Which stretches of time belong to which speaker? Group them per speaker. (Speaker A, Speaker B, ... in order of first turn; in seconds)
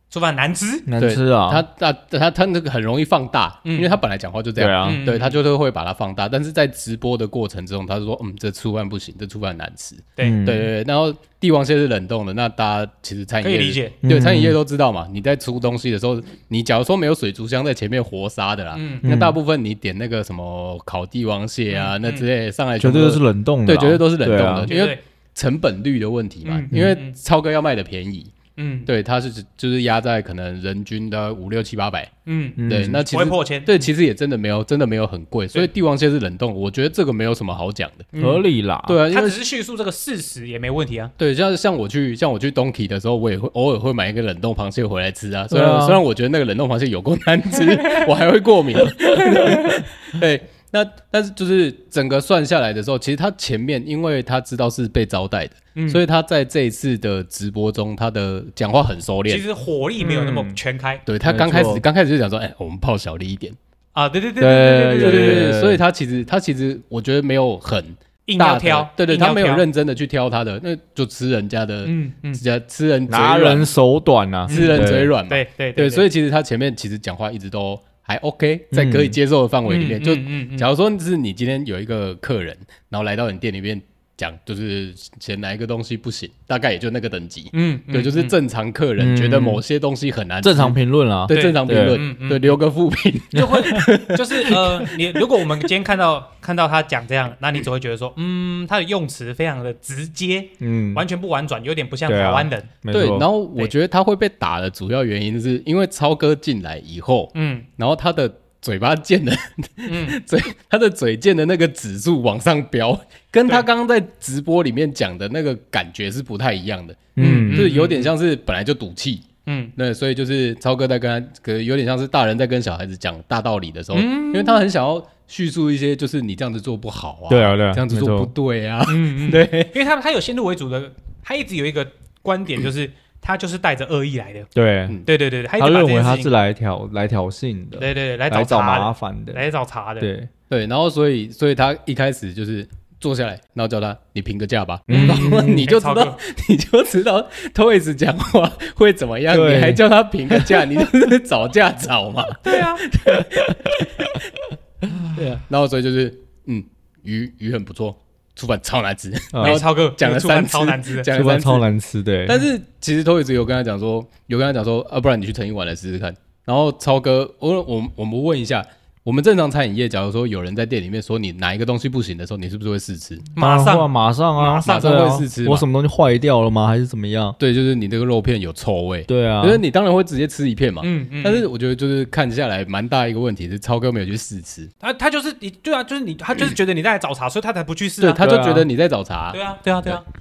Speaker A: 0.1-0.9, 3.6-3.9, 4.8-5.4, 13.4-14.0, 18.7-19.1, 21.7-22.3, 24.7-25.0, 26.4-27.2, 28.6-28.9, 32.3-33.9, 38.1-38.4, 39.1-41.1, 55.8-56.0, 59.3-61.0, 63.9-65.6, 68.3-69.7, 71.8-72.4, 74.5-76.1, 79.7-80.7, 87.5-88.4, 91.3-92.6, 93.3-102.7, 107.3-107.7, 109.9-110.2, 117.2-118.1, 119.5-119.8, 123.9-124.6, 128.9-134.5, 135.1-136.3, 137.8-140.1, 144.9-146.2, 152.4-152.9, 159.4-161.1, 173.4-175.0, 180.8-181.5, 184.8-188.2, 189.3-190.1
Speaker B: 0.9-1.6, 4.6-5.0, 10.2-10.7, 14.0-14.6, 19.0-19.4, 22.8-24.7, 26.7-27.0, 32.6-33.0, 38.2-39.0, 45.5-46.0, 49.5-49.8, 60.0-60.6, 61.2-61.8, 64.4-65.8, 73.1-75.1, 78.7-79.2, 89.0-89.6, 90.4-92.0, 93.3-93.9, 100.6-101.0, 102.1-103.3, 117.2-117.7, 127.3-128.3, 134.6-135.0, 135.6-139.4, 140.0-140.3, 144.9-145.7, 149.3-150.9, 153.1-154.2, 159.3-159.6, 161.1-162.4, 173.4-177.4, 179.1-179.6, 188.2-188.7
Speaker C: 1.0-28.3, 28.9-32.1, 32.7-38.1, 38.9-39.4, 41.2-59.4, 61.1-63.6, 65.0-73.8, 74.5-95.0, 102.9-129.8, 140.5-154.2, 155.1-161.7, 162.2-173.3, 174.6-175.7, 177.4-184.7, 188.0-190.0